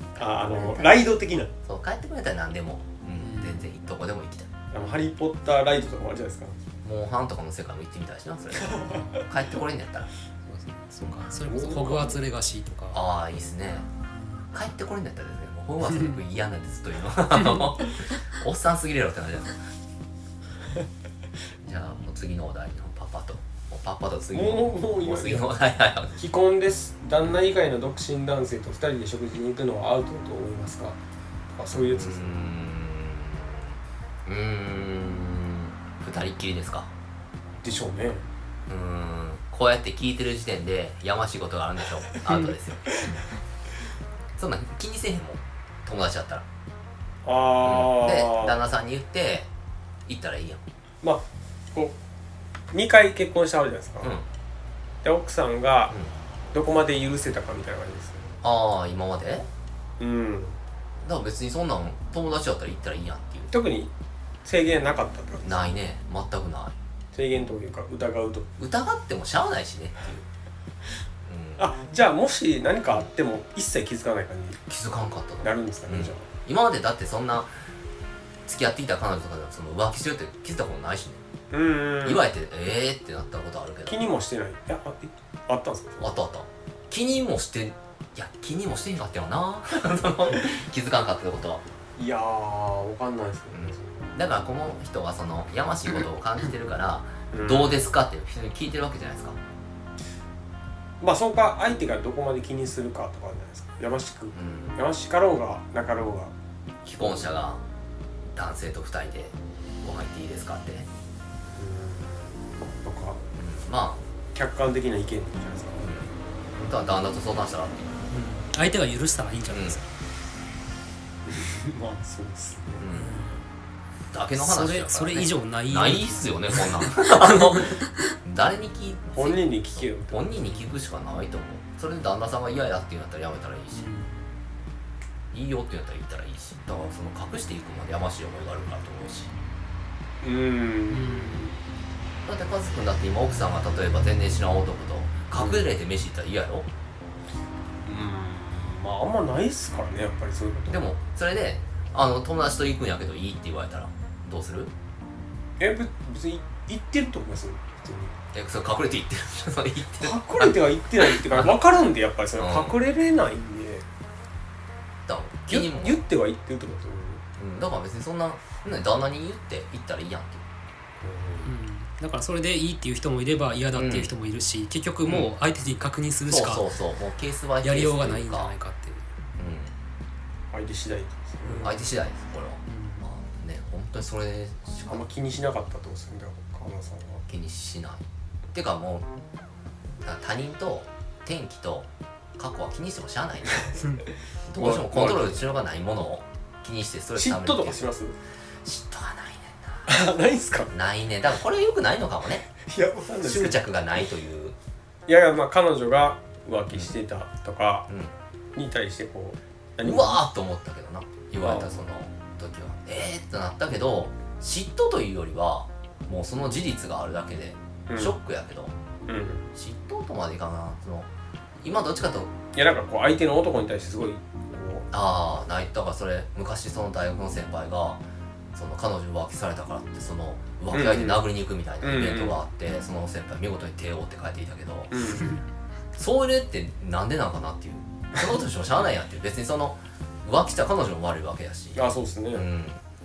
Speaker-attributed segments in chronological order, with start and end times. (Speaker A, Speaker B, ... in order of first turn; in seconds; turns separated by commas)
Speaker A: 0.1-1.5, Speaker B: 1.6-4.5, Speaker C: 3.2-3.7, Speaker A: 4.7-6.6, Speaker B: 6.8-10.1, Speaker A: 8.6-9.2, Speaker C: 10.5-13.0, Speaker B: 11.0-12.1, Speaker A: 11.5-12.1, Speaker B: 12.9-13.9, Speaker C: 14.1-14.4, Speaker B: 14.5-19.6, Speaker C: 15.9-16.2, Speaker C: 17.4-17.7, Speaker B: 21.6-26.1, Speaker A: 24.3-25.5, Speaker A: 26.2-31.0, Speaker A: 31.5-32.4, Speaker B: 31.7-36.9, Speaker A: 37.6-38.3, Speaker B: 38.7-43.2, Speaker C: 42.2-42.6, Speaker B: 44.4-46.5, Speaker A: 47.2-48.6, Speaker B: 47.6-49.5, Speaker B: 50.0-50.6, Speaker A: 51.0-52.0, Speaker A: 52.7-54.1, Speaker A: 55.0-55.9, Speaker A: 56.5-58.4, Speaker B: 58.4-59.5, Speaker A: 60.0-60.6, Speaker B: 61.0-63.5, Speaker A: 63.5-63.9, Speaker A: 64.4-65.7, Speaker B: 65.4-66.7, Speaker A: 67.1-68.5, Speaker B: 68.6-70.2, Speaker B: 71.2-71.6, Speaker A: 71.6-74.6, Speaker B: 74.7-77.5, Speaker A: 75.4-76.3, Speaker B: 78.4-81.2, Speaker A: 81.5-82.2, Speaker B: 82.0-84.0, Speaker A: 83.9-86.1, Speaker B: 86.0-91.6, Speaker A: 92.0-94.2, Speaker B: 93.5-99.4, Speaker A: 97.3-97.9, Speaker A: 101.0-106.3, Speaker B: 104.3-104.8, Speaker B: 106.8-107.6, Speaker B: 108.3-110.9, Speaker A: 111.5-113.2, Speaker B: 113.3-114.0, Speaker A: 114.3-115.8, Speaker B: 115.8-117.8, Speaker C: 118.1-119.8, Speaker B: 119.5-119.8, Speaker A: 121.2-122.9, Speaker B: 122.8-123.2, Speaker C: 122.9-123.3, Speaker B: 124.1-133.8, Speaker C: 124.3-128.2, Speaker A: 129.2-130.6, Speaker C: 133.7-134.3, Speaker B: 135.3-139.3, Speaker A: 140.2-141.5, Speaker C: 140.9-141.5, Speaker B: 142.2-146.7, Speaker A: 145.4-145.7, Speaker A: 147.8-150.9, Speaker B: 150.7-154.7, Speaker A: 155.6-158.2, Speaker B: 158.3-161.6, Speaker A: 160.0-163.8, Speaker B: 162.4-162.7, Speaker B: 165.1-166.0, Speaker A: 165.5-167.2, Speaker B: 167.3-170.4, Speaker A: 171.0-171.5, Speaker C: 171.4-176.7, Speaker B: 173.7-174.1, Speaker B: 175.0-175.3, Speaker B: 176.3-178.5, Speaker C: 177.6-179.0, Speaker B: 179.4-179.7, Speaker A: 180.5-181.8, Speaker C: 181.4-181.9, Speaker B: 181.6-185.0, Speaker C: 182.7-183.1, Speaker A: 184.8-187.2, Speaker B: 187.3-189.1, Speaker B: 190.0-193.8, Speaker B: 194.5-197.8, Speaker A: 194.5-195.4, Speaker A: 197.1-198.2, Speaker B: 198.6-200.0, Speaker A: 199.8-200.7, Speaker B: 200.7-202.5, Speaker A: 202.6-203.6, Speaker B: 203.2-204.6, Speaker A: 205.1-207.9, Speaker B: 207.9-208.1, Speaker A: 208.6-210.2, Speaker B: 209.8-218.7, Speaker A: 211.4-211.9, Speaker A: 217.9-218.2, Speaker A: 219.1-219.5, Speaker B: 219.5-221.1, Speaker B: 221.6-222.3, Speaker A: 222.5-224.9, Speaker B: 224.9-228.0, Speaker B: 228.5-235.2, Speaker A: 230.7-231.3, Speaker A: 231.8-232.4, Speaker A: 234.9-235.4, Speaker B: 235.9-242.8, Speaker A: 241.7-242.4